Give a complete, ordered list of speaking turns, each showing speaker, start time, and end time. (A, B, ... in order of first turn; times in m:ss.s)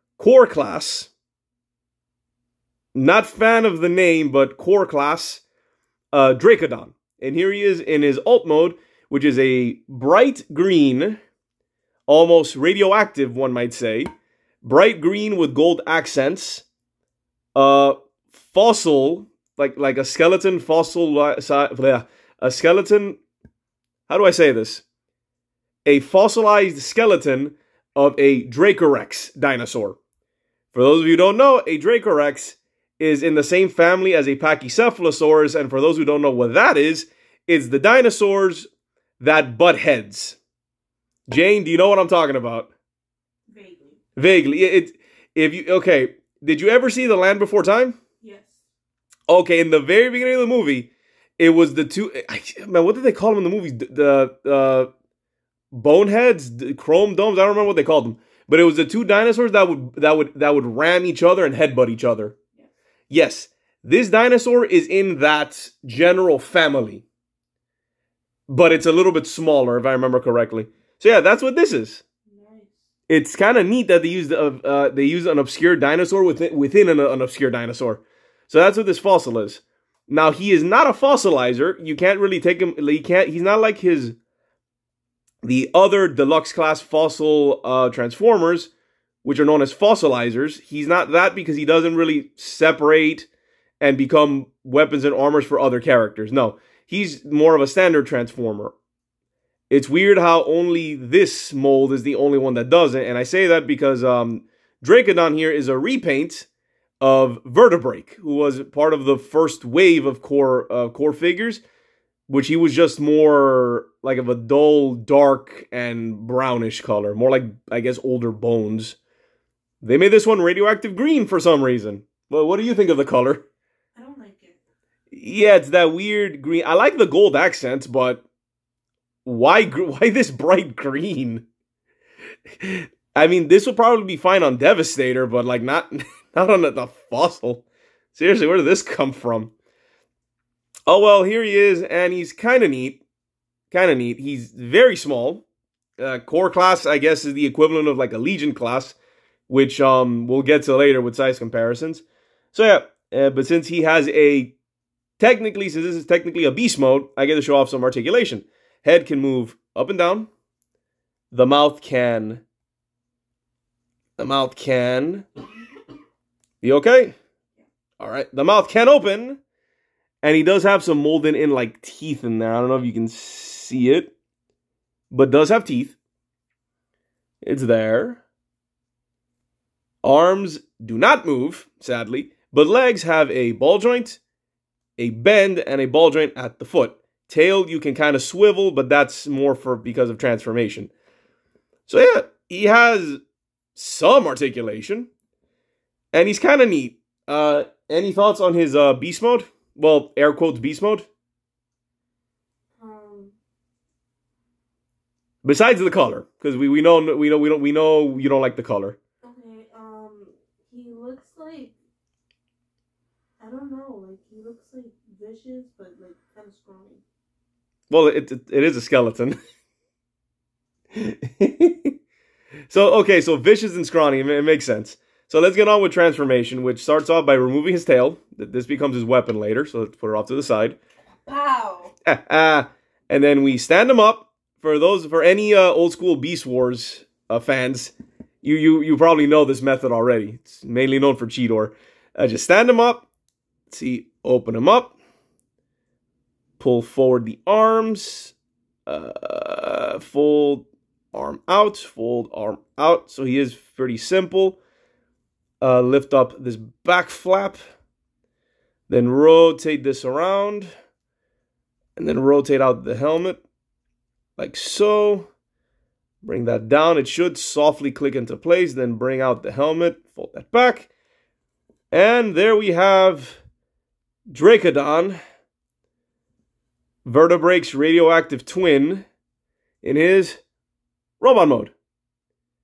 0:00.2-0:01.1 A
0:02.9-0:05.4 A
0:06.1-0:11.2 A
0:12.1-0:14.1 A
0:14.6-0:16.6 A
0:17.5-0:23.2 A
0:24.1-0:24.8 A
0:25.8-0:30.0 A
0:30.7-0:38.7 A
0:39.2-0:40.4 A
0:41.3-0:42.7 A
0:43.5-0:44.0 B
0:44.2-0:48.0 A
0:48.2-0:48.6 B
0:49.3-0:54.9 A
0:55.7-1:02.4 A
1:03.1-1:07.0 A
1:08.5-1:12.0 A
1:12.3-1:12.8 B
1:13.1-1:24.1 A
1:25.4-1:28.7 A
1:29.2-1:33.3 A
1:33.8-1:38.7 A
1:39.7-1:46.5 A
1:47.0-1:51.6 A
1:52.3-1:59.0 A
1:59.8-2:03.4 A
2:04.0-2:04.6 B
2:05.1-2:08.2 A
2:09.2-2:11.4 A
2:12.6-2:19.5 A
2:20.9-2:23.0 A
2:23.7-2:25.4 A
2:26.0-2:29.0 A
2:29.5-2:34.5 A
2:35.2-2:40.3 A
2:41.3-2:42.4 A
2:44.2-2:45.2 A
2:46.6-2:47.2 A
2:48.0-2:49.4 A
2:50.2-2:54.1 A
2:55.1-2:56.0 A
2:57.4-2:58.2 A
3:00.0-3:04.2 A
3:05.0-3:10.9 A
3:11.9-3:13.2 A
3:13.7-3:15.1 A
3:16.1-3:21.1 A
3:22.8-3:23.3 B
3:25.4-3:29.0 A
3:29.2-3:31.7 B
3:33.4-3:37.0 B
3:37.9-3:39.4 A
3:40.9-3:41.9 A
3:42.7-3:50.8 A
3:51.2-3:51.9 B
3:52.0-4:03.1 A
4:03.7-4:05.0 A
4:06.6-4:08.3 A
4:08.8-4:14.6 A
4:15.6-4:17.6 A
4:18.9-4:20.7 A
4:22.0-4:23.4 A
4:24.4-4:25.3 A
4:26.2-4:30.9 A
4:31.9-4:33.4 A
4:34.3-4:35.2 A
4:37.0-4:39.1 A
4:39.8-4:40.4 A
4:41.2-4:41.7 A